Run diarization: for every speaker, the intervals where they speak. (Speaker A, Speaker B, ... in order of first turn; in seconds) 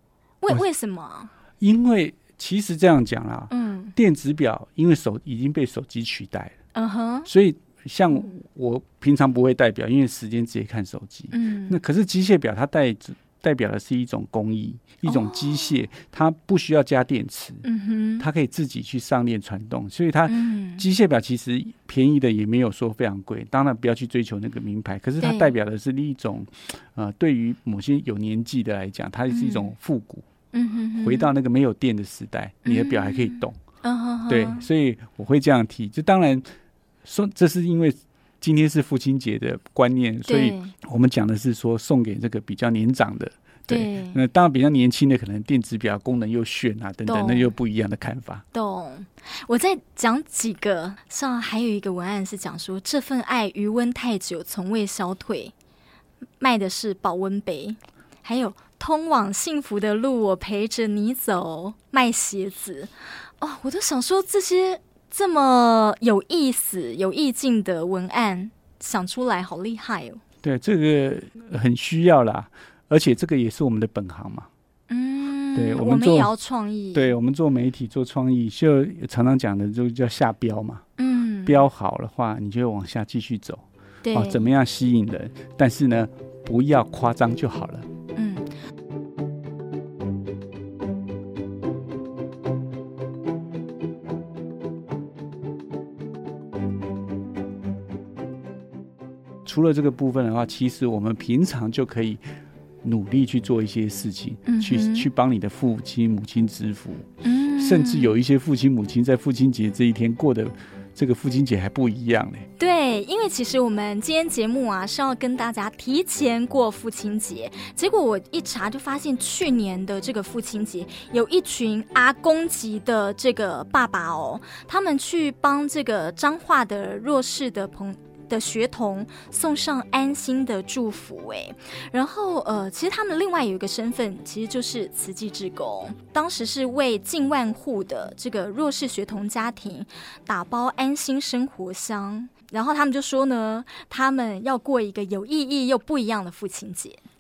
Speaker A: 0.4-1.3, 3.5-3.9, 6.8-7.3, 11.3-11.8, 15.1-15.8, 17.6-18.3, 20.3-20.9, 25.2-25.5, 29.3-29.7, 30.5-31.3, 32.6-34.7, 40.3-40.7, 43.7-44.2, 47.1-47.5, 48.5-55.5, 56.4-70.2, 74.9-77.1, 81.0-81.7, 84.0-84.5, 88.2-88.5, 104.5-105.1, 107.2-108.2, 112.6-147.0
Speaker B: 1.6-6.5, 7.3-17.6, 18.2-30.3, 31.0-33.6, 34.3-36.5, 37.0-48.5, 70.4-74.5, 75.5-76.3, 76.9-80.8, 81.5-87.9, 99.5-102.2, 102.8-112.5